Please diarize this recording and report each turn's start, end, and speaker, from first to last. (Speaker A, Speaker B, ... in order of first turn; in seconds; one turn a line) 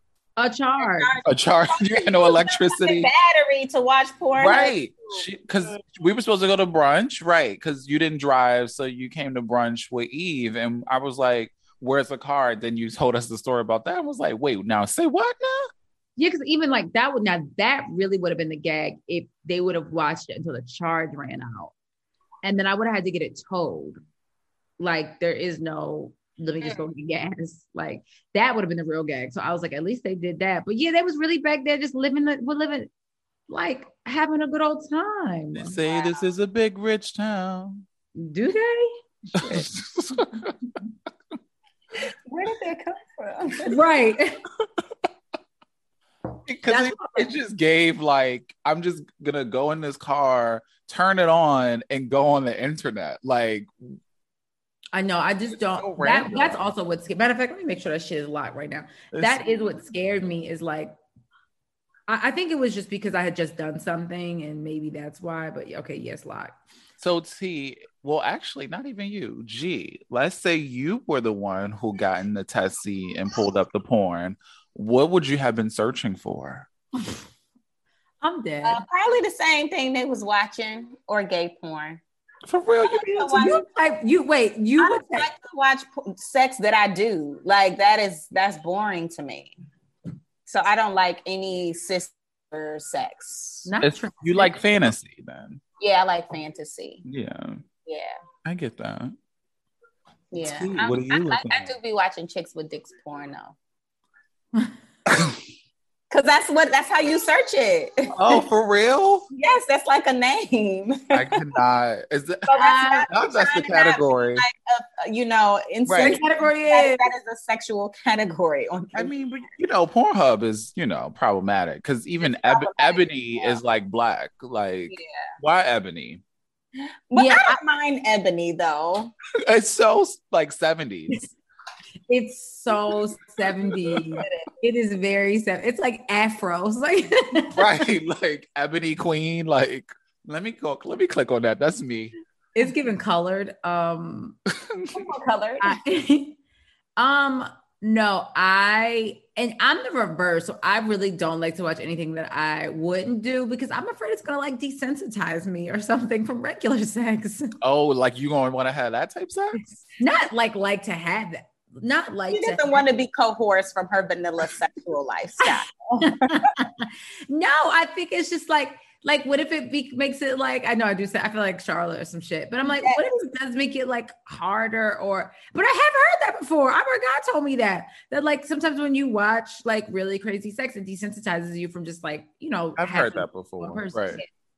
Speaker A: 0.4-1.1
Speaker B: 0.8-5.8
Speaker C: 1.2-3.1
Speaker C: 4.4-15.7
Speaker A: 16.2-21.7
Speaker A: 22.4-24.0
Speaker A: 24.8-32.9
Speaker B: 26.6-26.9
Speaker A: 33.5-35.8
Speaker C: 35.5-37.8
Speaker B: 35.8-36.1
Speaker A: 38.1-39.7
Speaker C: 39.3-40.6
Speaker B: 42.2-43.7
Speaker A: 43.6-44.4
Speaker C: 46.5-54.0
Speaker A: 46.6-47.3
Speaker A: 54.9-61.0
Speaker C: 55.5-56.7
Speaker C: 59.1-59.5
Speaker A: 62.1-66.5
Speaker C: 67.0-76.7
Speaker A: 78.2-78.8
Speaker B: 78.6-82.0
Speaker C: 82.5-83.3
Speaker B: 82.8-83.6
Speaker A: 83.3-85.3
Speaker B: 84.8-89.5
Speaker B: 90.5-93.7
Speaker A: 93.7-94.6
Speaker C: 93.8-95.6
Speaker B: 95.8-97.0
Speaker C: 97.0-97.6
Speaker B: 97.8-98.1
Speaker C: 98.4-99.1
Speaker B: 100.3-103.6
Speaker C: 100.4-101.7
Speaker B: 106.1-108.4
Speaker C: 108.1-109.3
Speaker B: 109.3-111.4
Speaker C: 111.1-112.5
Speaker B: 112.5-119.1
Speaker A: 112.5-113.1
Speaker C: 113.1-114.4
Speaker C: 115.9-116.2
Speaker A: 116.0-117.1
Speaker C: 118.9-126.2
Speaker B: 122.2-123.6
Speaker B: 124.9-125.3
Speaker B: 127.1-129.1
Speaker A: 127.1-127.6
Speaker C: 129.4-131.3
Speaker A: 132.1-137.8
Speaker B: 134.2-134.5
Speaker C: 137.5-142.1
Speaker A: 142.5-144.4
Speaker C: 144.6-145.1
Speaker B: 144.9-145.7
Speaker A: 145.6-146.4
Speaker A: 147.0-157.6
Speaker C: 157.6-159.8
Speaker A: 160.0-162.8
Speaker B: 162.3-166.5
Speaker A: 165.4-184.2
Speaker B: 172.7-173.0
Speaker C: 182.8-184.2